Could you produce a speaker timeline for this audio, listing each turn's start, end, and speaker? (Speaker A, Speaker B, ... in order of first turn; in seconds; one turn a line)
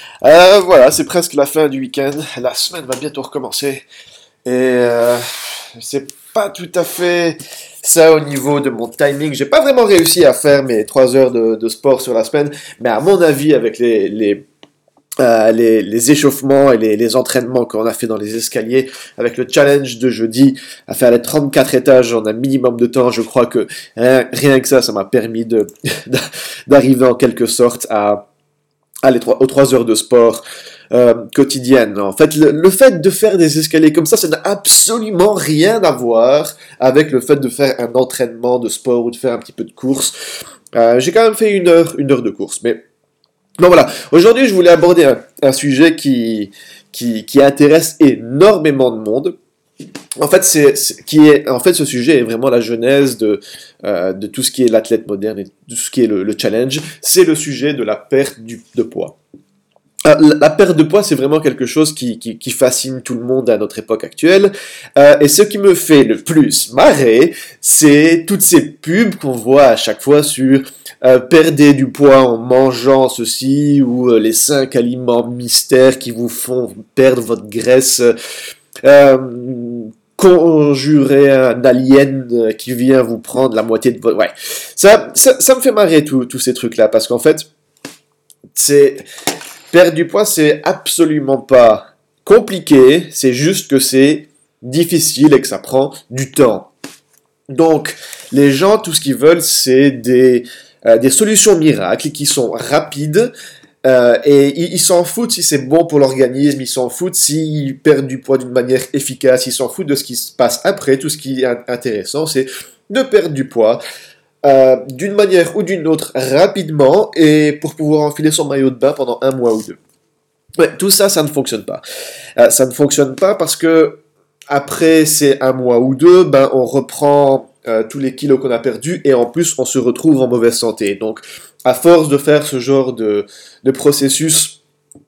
Speaker A: 0.2-3.8
Speaker A: 4.4-14.4
Speaker A: 15.2-28.2
Speaker A: 29.0-40.1
Speaker A: 40.7-42.8
Speaker A: 43.6-49.4
Speaker A: 50.2-59.2
Speaker A: 60.0-78.1
Speaker A: 78.8-87.5
Speaker A: 88.5-89.0
Speaker A: 89.7-96.7
Speaker A: 97.5-103.3
Speaker A: 103.8-113.8
Speaker A: 114.4-119.8
Speaker A: 120.6-121.8
Speaker A: 122.4-124.0
Speaker A: 124.5-134.6